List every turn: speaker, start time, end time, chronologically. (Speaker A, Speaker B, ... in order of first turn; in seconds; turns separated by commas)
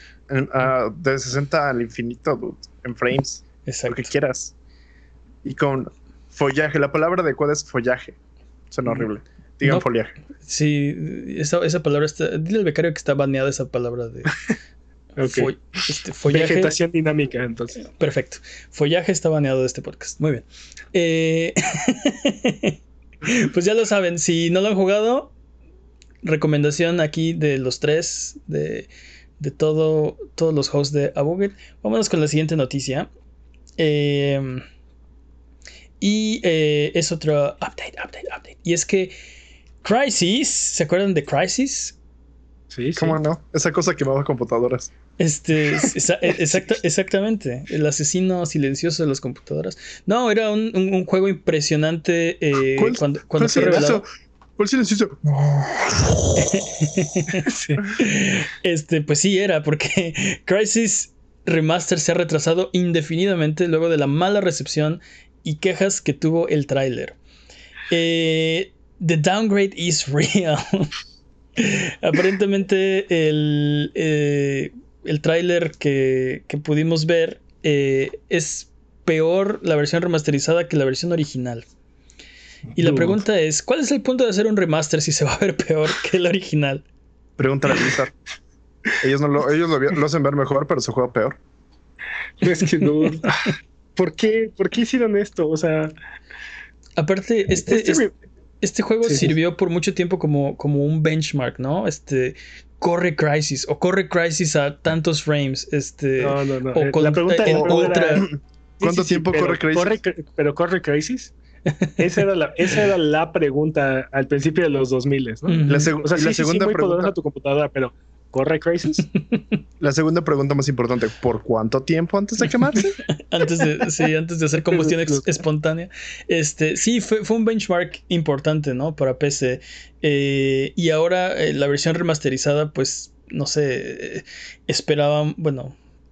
Speaker A: 0.3-4.5, Speaker B: 3.6-4.1, Speaker A: 5.4-8.2, Speaker A: 8.7-10.1, Speaker B: 10.4-14.3, Speaker B: 15.2-16.7, Speaker C: 15.2-15.5, Speaker C: 16.3-17.8, Speaker B: 17.8-25.3, Speaker B: 26.2-33.1, Speaker B: 33.8-34.6, Speaker B: 36.0-39.1, Speaker B: 39.8-42.0, Speaker C: 42.7-43.2, Speaker A: 43.0-44.9, Speaker B: 45.2-54.0, Speaker A: 52.8-54.0, Speaker A: 54.6-56.5, Speaker B: 56.4-67.2, Speaker C: 57.5-57.8, Speaker B: 67.9-70.9, Speaker B: 71.6-81.6, Speaker C: 82.8-83.2, Speaker B: 82.8-86.8, Speaker A: 87.4-88.1, Speaker A: 89.0-91.4, Speaker C: 92.4-95.9, Speaker B: 93.0-93.3, Speaker B: 97.0-98.0, Speaker C: 97.7-98.1, Speaker B: 98.6-108.3, Speaker C: 99.0-99.3, Speaker C: 106.2-111.3, Speaker A: 107.5-110.0, Speaker C: 112.0-119.0, Speaker B: 115.5-115.9, Speaker A: 115.7-117.1, Speaker A: 119.8-123.0, Speaker B: 123.0-135.7, Speaker C: 124.7-125.3